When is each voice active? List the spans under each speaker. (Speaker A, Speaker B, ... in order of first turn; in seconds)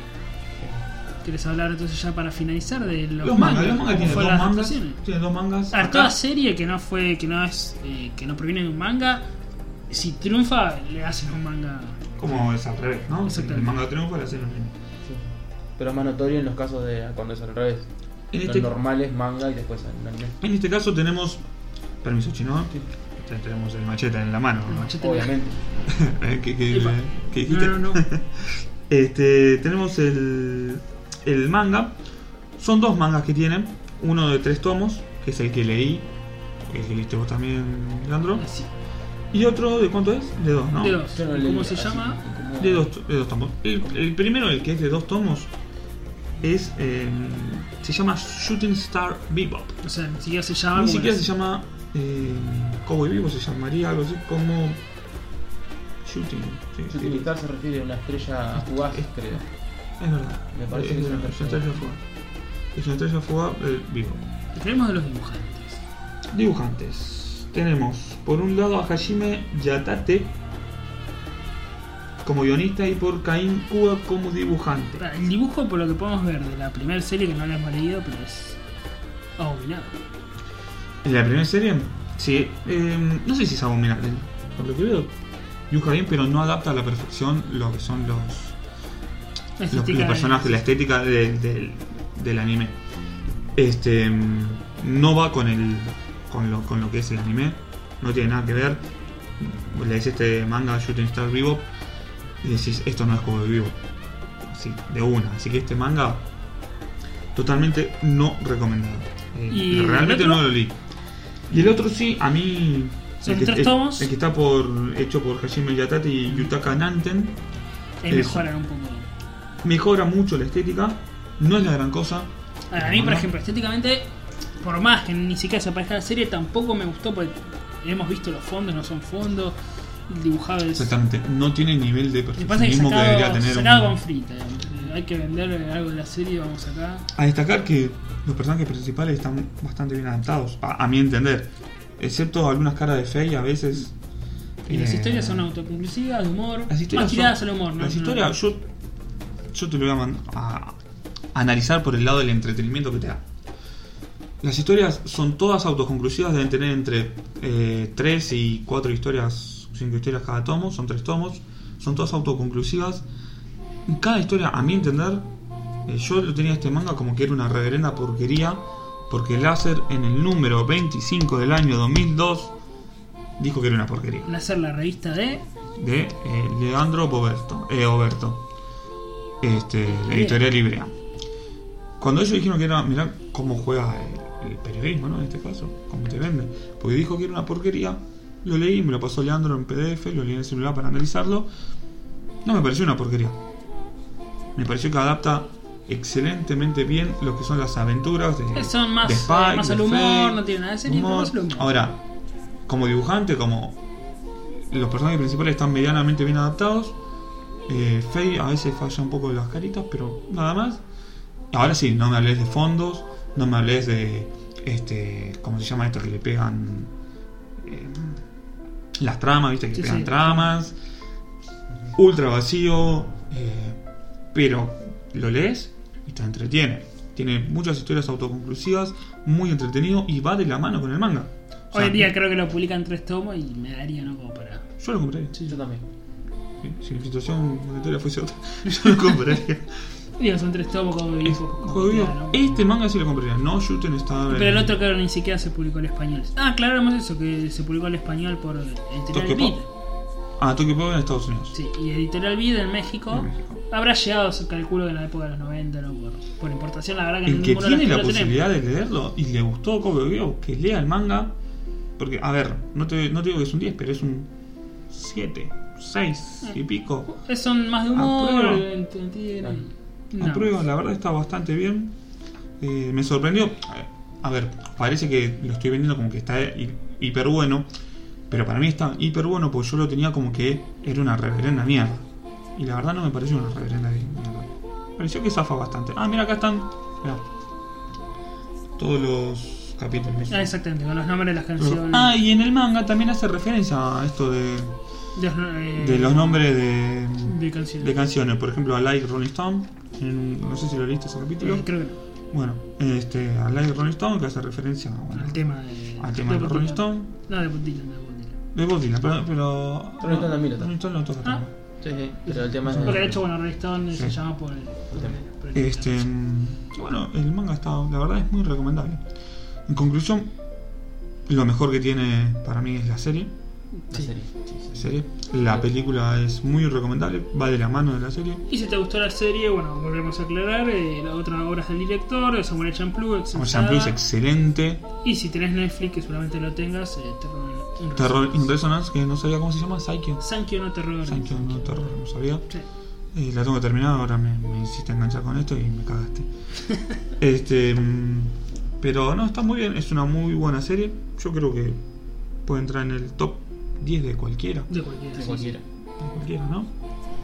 Speaker A: 0.6-0.8, 15.1-17.9, 18.4-20.4, 25.0-25.6, 41.1-42.9, 56.9-59.4, 60.5-61.8, 235.5-235.9, 310.0-310.7, 311.8-313.2, 314.9-315.2, 323.9-324.9, 355.1-355.6
Speaker B: 1.2-5.0, 5.7-9.3, 9.9-12.0, 13.3-13.8, 24.7-25.3, 26.7-28.0, 38.4-38.7, 40.8-42.2, 49.8-51.3, 64.5-65.8, 75.0-78.6, 79.4-80.0, 89.6-90.6, 109.5-110.5, 113.2-114.1, 118.0-119.1, 122.7-124.1, 124.6-129.6, 130.1-130.9, 132.4-137.1, 144.7-148.3, 174.3-175.4, 179.9-180.4, 198.5-201.8, 219.8-220.5, 231.7-234.7, 240.2-242.6, 244.3-249.7, 251.5-258.4, 266.4-270.6, 290.3-292.1, 295.1-296.5, 297.2-297.9, 301.4-301.9, 305.1-308.4, 312.3-316.0, 323.8-324.1, 328.5-334.0, 335.0-338.5, 340.2-341.9, 354.7-355.5
Speaker C: 3.2-6.1, 12.2-14.8, 18.3-18.7, 20.4-21.4, 22.0-24.9, 25.9-32.0, 32.6-36.1, 36.7-38.5, 39.3-41.0, 42.6-45.5, 46.4-49.8, 50.7-54.8, 56.0-57.3, 58.6-59.4, 60.0-62.0, 62.7-64.2, 66.3-70.3, 72.2-75.0, 81.0-85.1, 85.7-88.6, 89.7-92.8, 93.6-98.8, 99.4-101.7, 102.4-103.8, 104.5-106.3, 107.3-110.8, 111.5-117.4, 118.1-118.5, 119.6-123.3, 130.8-134.0, 137.2-143.9, 144.7-145.5, 146.7-148.6, 149.5-150.8, 151.3-153.2, 154.4-163.1, 163.9-165.3, 165.9-172.5, 173.4-174.3, 175.8-178.4, 179.4-180.9, 182.0-191.5, 192.4-193.4, 194.6-202.0, 202.7-203.8, 204.7-207.0, 207.7-210.8, 211.5-216.9, 217.6-218.2, 219.0-220.8, 221.9-223.8, 224.3-232.1, 234.8-235.3, 236.6-239.7, 241.2-244.8, 249.1-249.6, 250.4-251.6, 253.1-253.6, 257.2-261.3, 262.0-264.3, 264.9-267.1, 267.9-268.6, 270.2-271.9, 272.6-277.7, 278.3-282.0, 282.6-287.2, 288.8-290.5, 291.6-294.8, 295.8-301.7, 302.3-307.1, 308.5-311.5, 312.6-313.2, 315.5-319.0, 319.7-320.3, 321.3-323.3, 324.7-328.4, 333.3-334.8, 338.0-340.3, 341.0-342.5, 343.1-346.3, 347.2-351.8, 352.4-354.7, 356.0-356.7